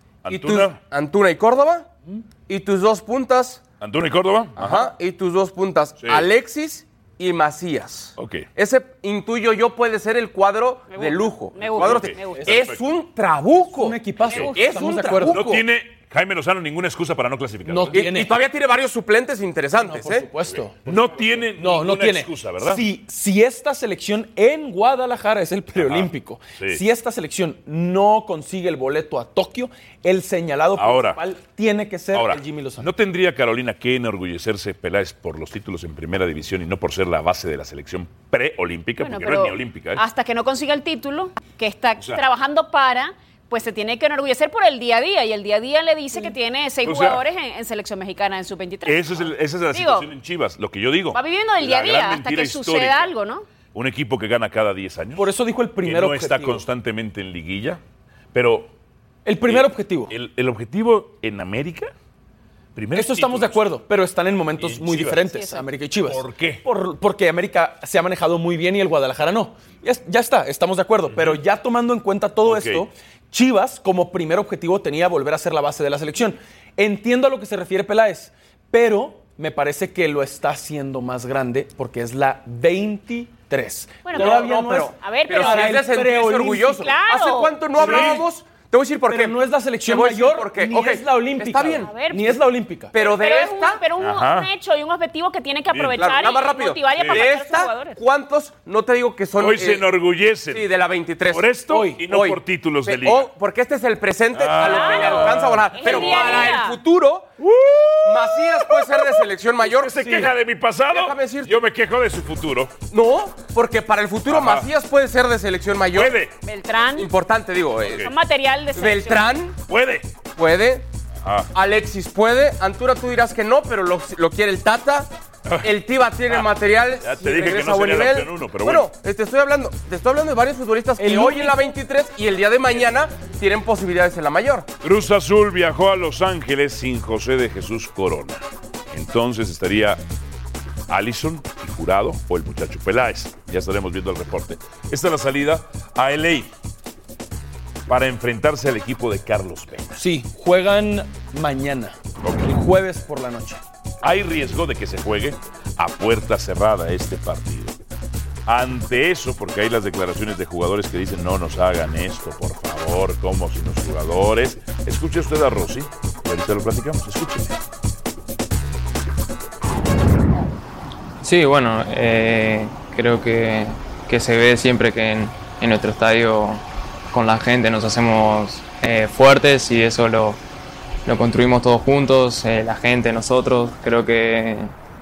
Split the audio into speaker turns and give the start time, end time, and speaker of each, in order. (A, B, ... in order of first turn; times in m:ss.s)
0:00.2-0:00.8 A
0:00.3-0:01.9 B
0:02.5-0:03.6 B
0:03.8-0:04.9 A
0:04.6-0:14.0 B
0:06.0-0:06.3 A
0:08.2-0:08.5 A
0:10.9-0:12.6 C
0:11.6-0:12.8 A
0:13.7-0:15.6 D
0:14.3-0:14.6 A
0:14.5-0:15.6 B
0:15.3-0:18.0 A
0:17.6-0:18.4 D
0:17.9-0:20.3 B
0:19.8-0:32.9 D
0:20.8-0:22.8 A
0:25.7-0:26.8 A
0:30.8-0:31.2 A
0:32.1-0:40.0 A
0:39.0-0:50.1 C
0:46.8-0:47.2 A
0:48.8-0:53.1 A
0:51.1-0:53.4 C
0:53.7-0:57.8 A
0:55.2-0:56.6 D
0:58.3-0:58.7 A
0:59.2-1:00.1 D
0:59.4-1:01.9 A
1:02.7-1:03.7 A
1:02.9-1:26.8 D
1:04.6-1:05.3 A
1:05.3-1:05.6 C
1:06.0-1:06.6 A
1:11.1-1:11.4 A
1:12.4-1:12.9 A
1:24.0-1:25.8 C
1:24.1-1:32.0 B
1:26.7-1:28.1 C
1:27.8-1:28.3 D
1:27.8-1:28.2 A
1:29.1-1:32.9 D
1:31.8-1:32.4 C
1:32.9-1:33.8 B
1:33.0-1:38.0 C
1:34.0-1:34.5 A
1:35.7-1:36.0 A
1:35.9-1:41.5 B
1:36.9-1:37.3 A
1:39.4-1:40.7 A
1:41.3-1:43.3 A
1:41.7-1:42.1 D
1:42.1-1:47.3 B
1:44.3-1:46.5 A
1:44.6-1:46.8 C
1:47.4-1:48.1 A
1:47.6-1:48.3 D
1:48.0-1:50.3 B
1:48.6-1:52.7 A
1:50.9-1:51.6 B
1:52.9-1:56.1 B
1:54.3-1:54.7 A
1:55.9-1:56.3 A
1:56.4-1:57.1 C
1:57.0-1:58.1 B
1:57.8-1:58.1 A
1:58.0-1:59.3 C
1:58.7-1:59.6 B
1:59.7-2:00.1 A
2:00.4-2:00.9 B
2:01.2-2:01.5 A
2:01.5-2:05.1 B
2:05.4-2:05.7 A
2:05.6-2:14.7 B
2:06.3-2:08.9 A
2:11.0-2:11.7 D
2:14.8-2:20.0 A
2:20.9-2:26.5 A
2:27.9-2:30.0 A
2:29.9-2:33.6 D
2:32.2-2:32.6 A
2:34.0-2:37.8 A
2:38.4-2:47.6 A
2:51.2-3:00.4 E
3:01.0-3:04.7 E